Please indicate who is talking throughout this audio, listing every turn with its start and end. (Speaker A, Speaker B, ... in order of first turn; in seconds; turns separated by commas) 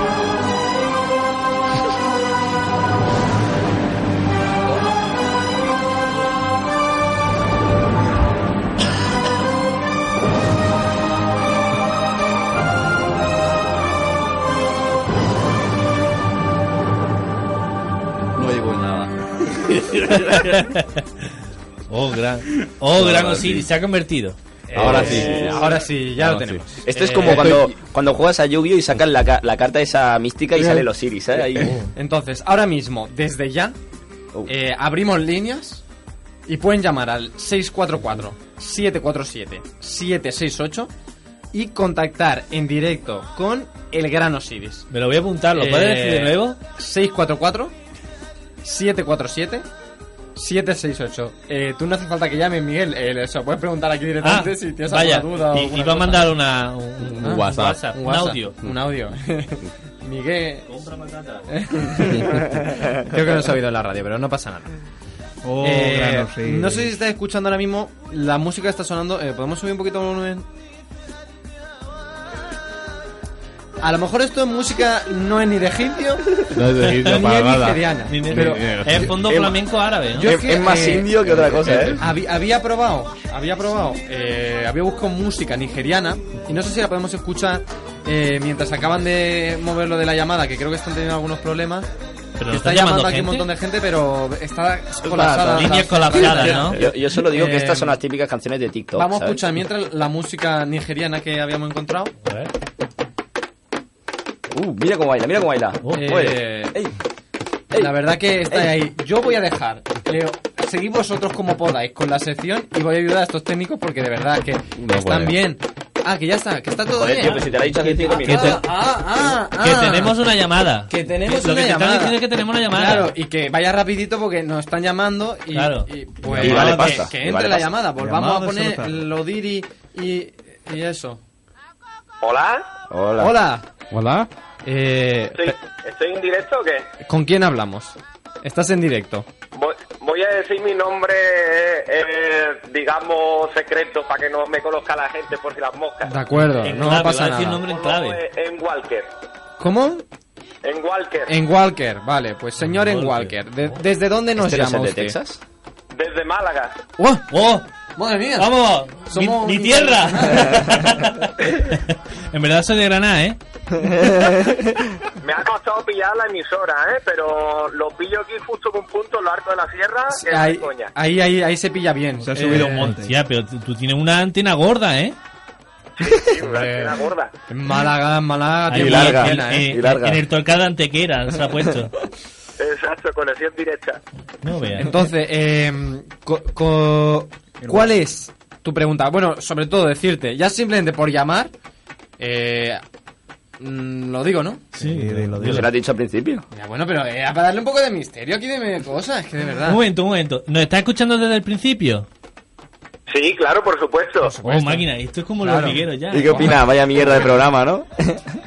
Speaker A: 18.3-20.6, Speaker B: 20.1-21.3, Speaker B: 21.9-24.4, Speaker A: 22.9-23.7, Speaker C: 24.7-27.6, Speaker A: 24.7-26.6, Speaker D: 24.8-25.1, Speaker D: 26.9-31.8, Speaker A: 27.2-27.7, Speaker C: 31.9-33.8, Speaker C: 34.5-35.8, Speaker C: 36.5-40.9, Speaker C: 41.5-44.9, Speaker B: 44.9-46.6, Speaker C: 45.5-47.7, Speaker C: 48.6-49.6, Speaker C: 50.3-56.3, Speaker B: 54.2-58.6, Speaker A: 57.0-57.8, Speaker C: 57.2-60.7, Speaker B: 60.7-62.0, Speaker C: 61.5-64.7, Speaker E: 65.4-67.0, Speaker C: 65.6-70.4, Speaker C: 73.8-78.7, Speaker A: 76.5-79.4, Speaker B: 76.9-77.1, Speaker B: 78.1-80.3, Speaker D: 79.2-79.5, Speaker D: 80.1-82.0, Speaker C: 80.1-81.1, Speaker A: 81.2-82.0, Speaker C: 81.9-91.9, Speaker B: 92.4-93.5, Speaker C: 92.5-98.0, Speaker D: 95.1-99.4, Speaker B: 95.5-96.8, Speaker C: 98.9-102.1, Speaker B: 102.2-102.5, Speaker D: 104.5-107.0, Speaker C: 105.9-106.8, Speaker D: 107.7-108.0, Speaker C: 107.8-117.5, Speaker A: 114.8-115.4, Speaker D: 116.9-118.6, Speaker B: 117.5-118.7, Speaker C: 118.0-120.2, Speaker B: 119.6-123.1, Speaker C: 120.9-131.2, Speaker B: 125.5-125.9, Speaker E: 126.3-127.0, Speaker D: 126.3-127.8, Speaker A: 126.4-126.8, Speaker E: 128.0-129.0, Speaker F: 132.2-132.7, Speaker D: 132.9-133.3, Speaker C: 133.2-133.7, Speaker A: 133.9-134.3, Speaker C: 134.6-135.5, Speaker F: 135.3-136.9, Speaker C: 137.0-139.3, Speaker F: 139.5-146.1, Speaker C: 146.0-147.6, Speaker B: 146.4-148.2, Speaker F: 147.6-149.1, Speaker C: 149.6-150.0, Speaker F: 150.6-151.3, Speaker C: 151.3-155.2, Speaker B: 152.6-153.7, Speaker D: 154.4-155.4, Speaker F: 155.9-156.8, Speaker C: 157.0-157.3, Speaker B: 157.3-157.7, Speaker C: 157.9-160.9, Speaker B: 158.3-163.4, Speaker D: 163.8-164.8, Speaker F: 165.2-170.9, Speaker C: 170.1-172.9, Speaker E: 172.2-173.1, Speaker B: 172.4-175.2, Speaker F: 176.0-177.3, Speaker C: 176.4-179.7, Speaker B: 178.7-182.0, Speaker D: 178.7-180.2, Speaker F: 182.6-184.0, Speaker B: 184.4-185.0, Speaker C: 184.8-191.5, Speaker E: 187.6-187.9, Speaker C: 192.2-192.8, Speaker C: 193.6-194.7, Speaker B: 194.8-195.7, Speaker E: 194.8-195.7, Speaker D: 195.4-196.4, Speaker C: 196.5-199.8, Speaker B: 199.6-202.1, Speaker F: 203.1-204.4, Speaker B: 204.3-206.6, Speaker C: 204.4-204.8, Speaker C: 205.4-206.6, Speaker D: 206.1-208.3